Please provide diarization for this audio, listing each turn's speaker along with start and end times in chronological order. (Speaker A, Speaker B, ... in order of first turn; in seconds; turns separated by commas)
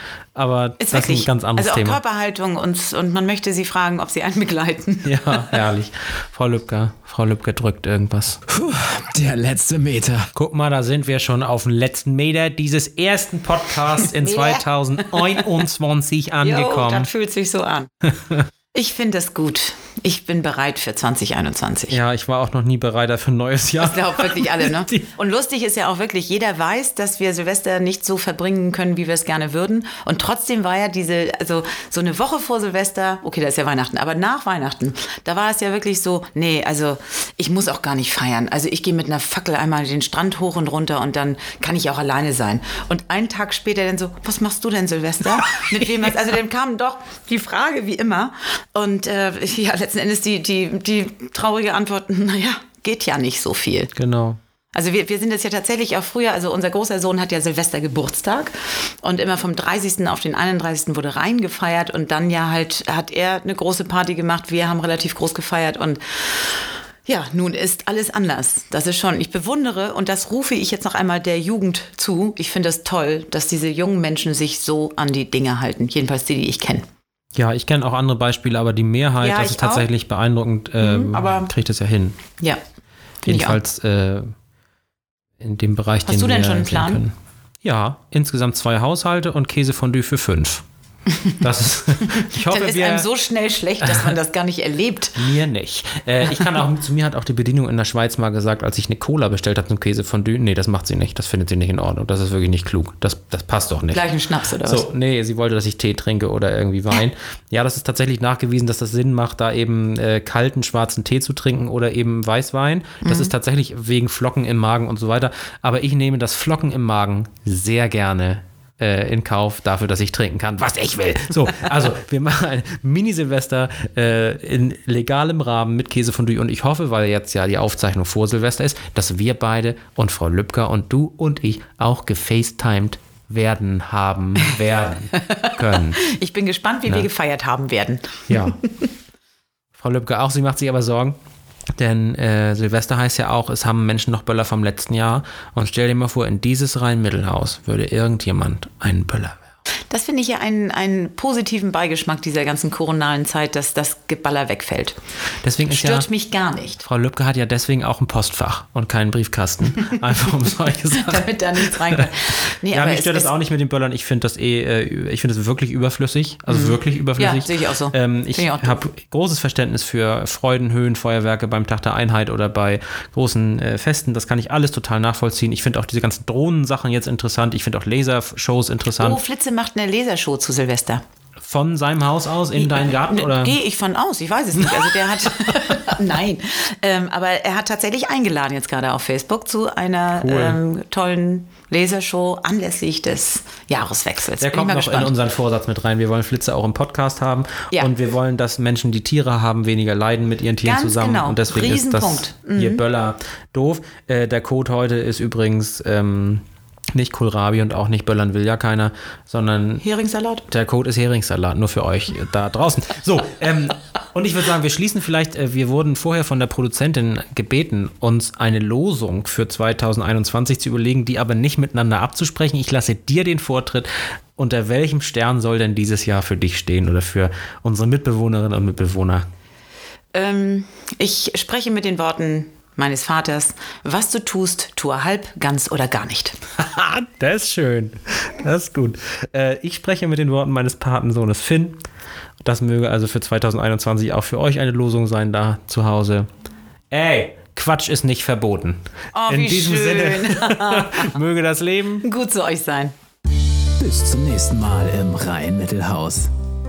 Speaker A: 0.4-2.0, Speaker B: 0.8-5.5, Speaker A: 5.0-8.4, Speaker C: 8.5-10.3, Speaker A: 10.3-17.1, Speaker B: 14.2-15.4, Speaker B: 16.4-17.9, Speaker A: 18.0-18.5, Speaker B: 18.7-22.0, Speaker A: 21.9-25.0, Speaker B: 23.8-53.9, Speaker A: 54.0-54.4, Speaker B: 54.7-76.9, Speaker A: 77.3-82.2, Speaker B: 79.2-79.9, Speaker B: 80.8-81.5, Speaker A: 83.2-84.3, Speaker B: 83.3-83.6, Speaker A: 85.4-90.6, Speaker B: 86.1-87.0, Speaker A: 91.4-93.1, Speaker B: 92.1-95.2, Speaker A: 93.8-94.1, Speaker A: 95.2-104.1, Speaker B: 103.9-104.9, Speaker A: 104.6-136.0, Speaker B: 113.0-113.3, Speaker B: 135.2-138.7, Speaker A: 138.3-138.6, Speaker A: 139.8-141.2, Speaker A: 141.8-149.4, Speaker B: 149.9-155.0, Speaker A: 155.4-156.1, Speaker B: 155.7-156.8, Speaker A: 156.8-179.2, Speaker B: 161.0-163.3, Speaker B: 166.5-168.8, Speaker B: 179.0-181.0, Speaker A: 181.4-183.6, Speaker B: 182.6-195.1, Speaker A: 184.6-185.9, Speaker A: 190.1-190.6, Speaker A: 194.4-209.8, Speaker B: 200.6-202.8, Speaker B: 209.8-210.5, Speaker A: 210.5-229.3, Speaker B: 230.1-236.4, Speaker A: 236.6-241.8, Speaker A: 242.4-246.3, Speaker A: 246.9-252.0, Speaker B: 249.1-251.2, Speaker B: 252.0-252.9, Speaker C: 253.8-256.3